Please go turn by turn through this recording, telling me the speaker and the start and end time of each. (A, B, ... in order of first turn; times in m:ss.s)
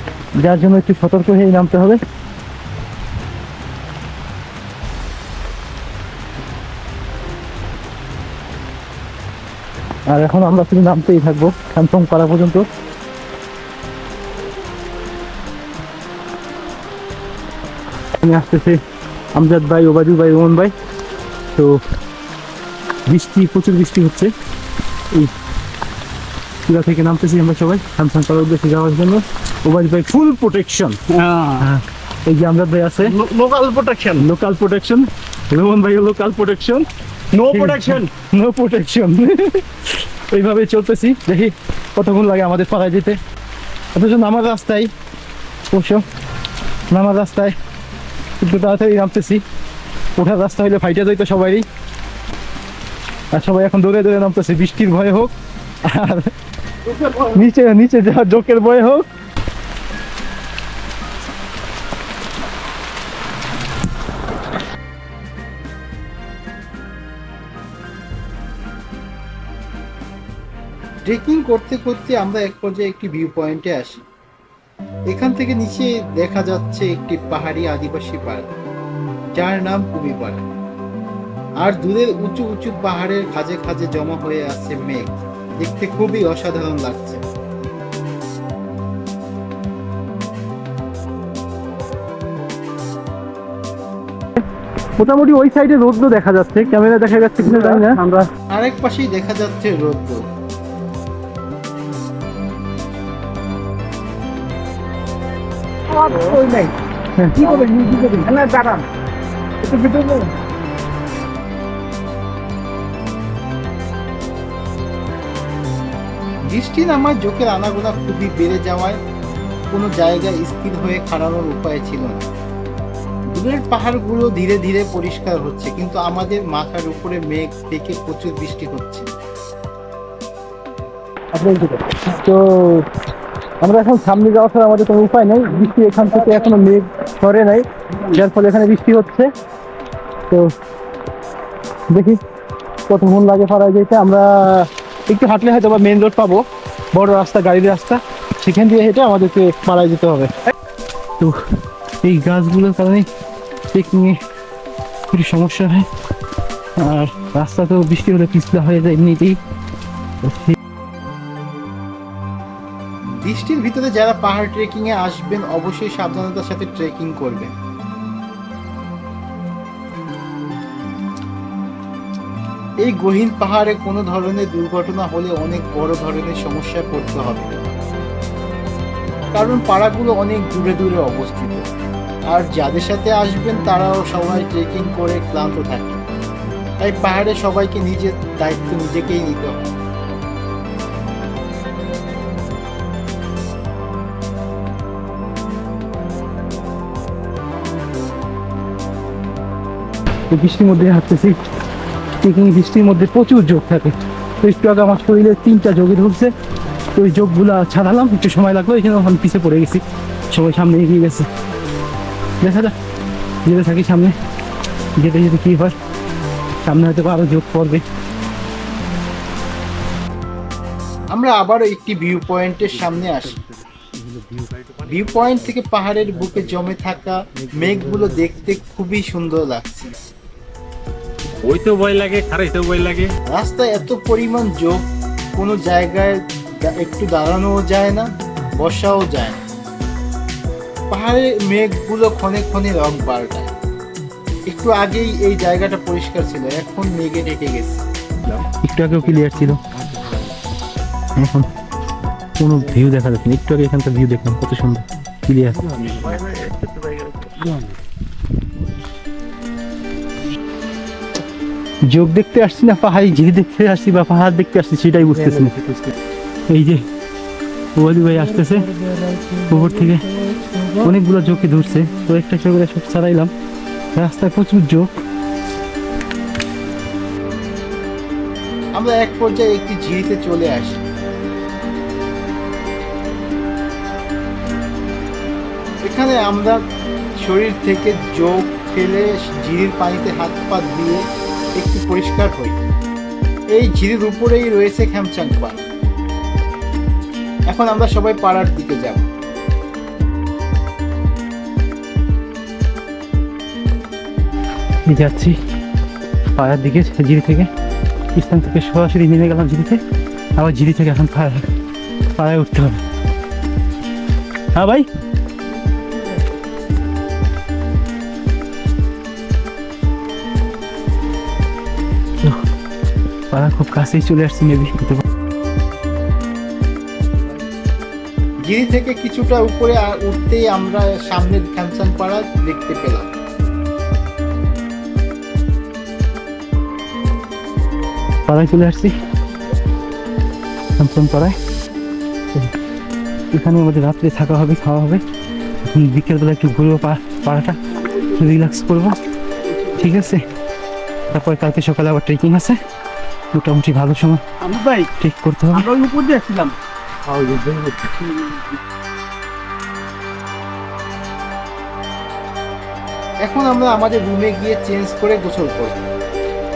0:00.4-0:02.0 A
0:10.1-0:12.7 A
0:18.2-0:18.8 A
0:19.4-0:20.7 A
0:21.6-0:21.8 A
0:23.1-0:24.3 A
0:26.7-0:43.2 A
0:31.3-0:31.6 B
0:33.3-0:33.5 B
0:37.5-0:37.9 C
0:44.0-0:44.9 A
0:45.7-0:46.0 A
0:46.9-0:47.6 A
0:48.4-0:49.4 A
0:50.2-0:51.7 A
0:53.3-0:55.3 A
0:55.8-0:56.3 A
0:56.9-0:59.1 A
1:11.0-1:14.0 D
1:15.1-1:18.5 D
1:19.3-1:20.5 D
1:21.6-1:27.2 D
1:35.0-1:38.3 A
1:38.5-1:40.2 D
1:45.9-1:46.7 B
1:47.2-1:48.2 A
1:47.4-1:48.8 B
1:49.6-1:50.3 B
1:56.5-1:59.0 D
1:59.7-2:02.3 D
2:03.3-2:09.1 D
2:11.3-2:12.9 A
2:13.6-2:19.3 A
2:21.9-2:22.2 A
2:22.9-2:30.3 A
2:32.0-2:33.1 A
2:33.7-2:34.2 A
2:35.1-2:35.9 A
2:36.8-2:39.4 A
2:40.2-2:40.6 A
2:43.1-2:47.5 D
2:52.8-2:57.6 D
2:59.3-3:01.7 D
3:02.3-3:06.0 D
3:06.8-3:09.6 D
3:20.3-3:21.4 A
3:22.2-3:26.3 A
3:27.0-3:31.3 A
3:32.4-3:32.7 A
3:33.5-3:34.1 A
3:35.0-3:35.8 A
3:36.6-3:37.8 A
3:41.1-3:43.4 D
3:44.8-3:50.0 D
3:51.4-3:53.1 C
3:53.3-3:54.8 D
3:55.4-3:59.4 D
4:00.9-4:03.5 D
4:04.5-4:07.8 D
4:08.3-4:09.8 A
4:11.2-4:11.5 A
4:12.4-4:16.4 A
4:21.9-4:25.9 A
4:26.5-4:26.8 A
4:27.8-4:28.8 A
4:28.5-4:30.8 B
4:29.4-4:30.2 A
4:30.7-4:33.3 A
4:34.0-4:34.9 A
4:38.8-4:40.8 D
4:45.8-4:46.6 D
4:47.2-4:51.0 D
4:51.6-4:52.6 D
4:53.5-4:55.7 D
4:57.5-4:59.1 D
5:04.9-5:05.4 A
5:06.4-5:07.5 A
5:08.2-5:09.8 A
5:10.4-5:11.5 A
5:12.2-5:12.8 A
5:14.6-5:14.9 A
5:23.3-5:25.0 A
5:28.5-5:33.1 D
5:38.3-5:38.9 A
5:40.8-5:41.4 A
5:43.3-5:45.0 A
5:45.7-5:49.0 A
5:49.7-5:50.2 A
5:51.1-5:52.6 A
5:53.3-5:55.8 A
5:54.4-5:54.9 B
5:55.7-5:56.6 B
5:57.1-5:57.8 B
6:03.2-6:05.9 D